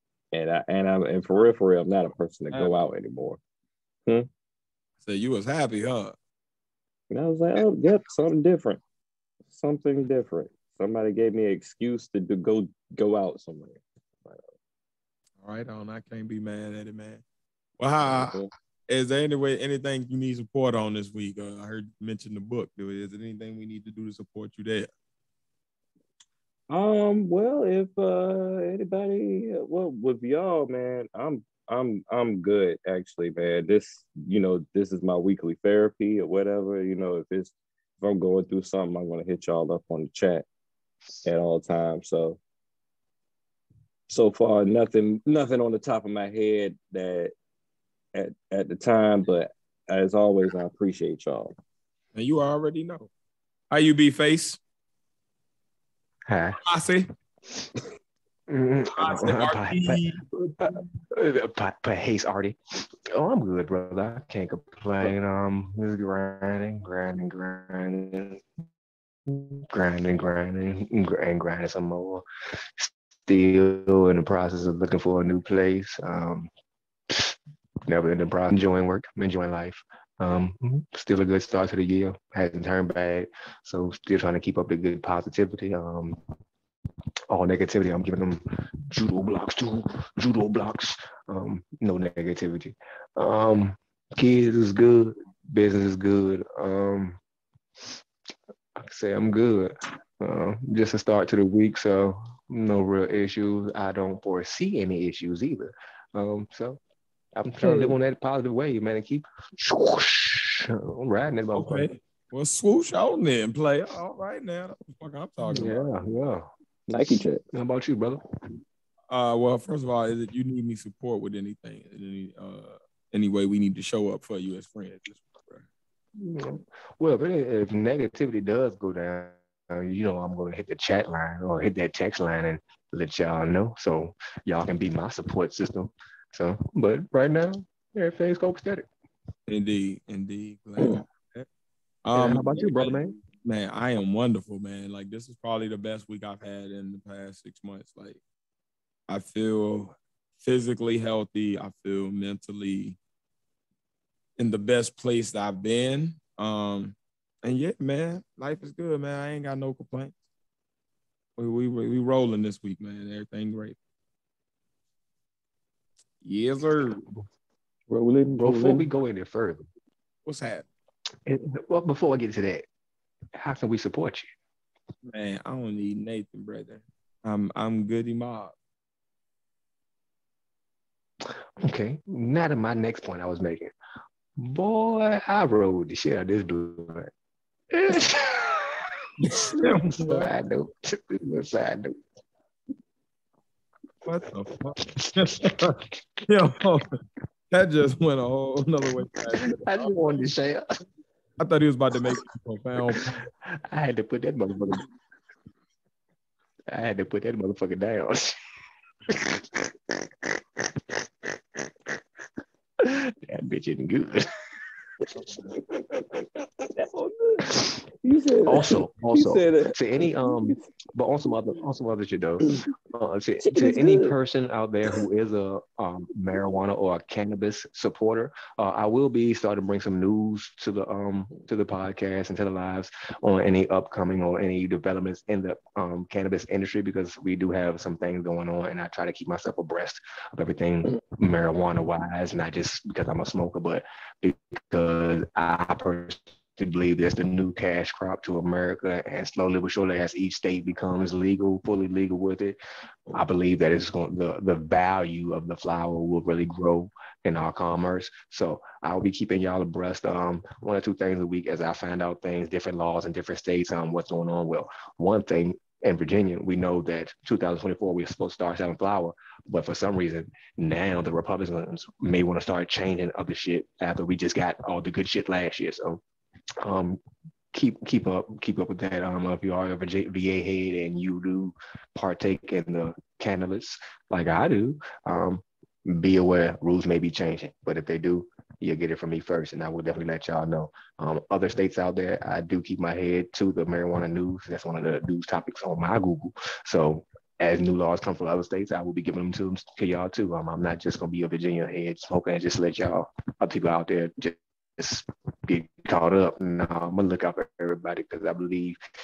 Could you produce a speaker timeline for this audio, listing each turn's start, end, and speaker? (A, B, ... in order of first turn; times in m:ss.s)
0:00.3-0:03.4 A
0:05.0-0:06.2 B
0:07.1-0:08.8 A
0:09.5-0:14.5 A
0:15.4-0:17.2 B
0:17.8-0:24.9 B
0:18.1-0:18.5 A
0:26.7-0:40.5 A
0:41.2-0:42.4 A
0:44.1-0:47.3 A
0:48.1-0:51.5 A
0:52.2-0:53.1 B
0:53.7-0:54.6 B
0:56.3-0:56.6 C
0:56.6-0:57.1 B
0:58.5-1:02.6 C
0:59.0-1:00.2 B
1:03.1-1:08.4 C
1:09.3-1:16.5 C
1:17.1-1:17.4 C
1:17.9-1:26.2 C
1:27.3-1:37.2 C
1:38.8-1:46.8 C
1:47.4-1:51.9 C
1:47.6-1:48.0 A
1:51.5-1:55.8 B
1:55.4-1:56.5 C
1:56.9-1:57.4 A
1:57.5-1:58.2 C
1:59.1-2:05.6 B
2:06.2-2:18.9 C
2:19.5-2:21.5 B
2:22.0-2:28.2 B
2:22.1-2:23.2 C
2:29.1-2:33.0 B
2:34.4-2:40.2 B
2:41.4-2:43.8 B
2:46.2-2:47.0 B
2:47.9-2:48.9 A
2:48.4-2:49.7 C
2:50.3-2:50.7 B
2:51.3-2:52.7 C
2:53.4-2:54.3 C
2:55.1-2:58.5 B
3:01.6-3:03.7 C
3:04.4-3:07.1 C
3:07.7-3:08.8 C
3:09.2-3:10.2 B
3:09.9-3:12.0 C
3:14.0-3:17.0 B
3:15.0-3:15.6 C
3:17.5-3:20.2 B
3:19.4-3:20.6 C
3:21.4-3:23.3 B
3:22.9-3:24.8 C
3:26.7-3:28.4 C
3:29.1-3:29.7 C
3:30.6-3:30.9 C
3:32.8-3:34.3 C
3:35.7-3:36.3 C
3:36.8-3:40.6 A
3:38.4-4:12.6 C
3:43.4-3:44.2 A
4:13.1-4:36.0 C
4:36.6-4:37.0 C
4:37.5-5:08.8 C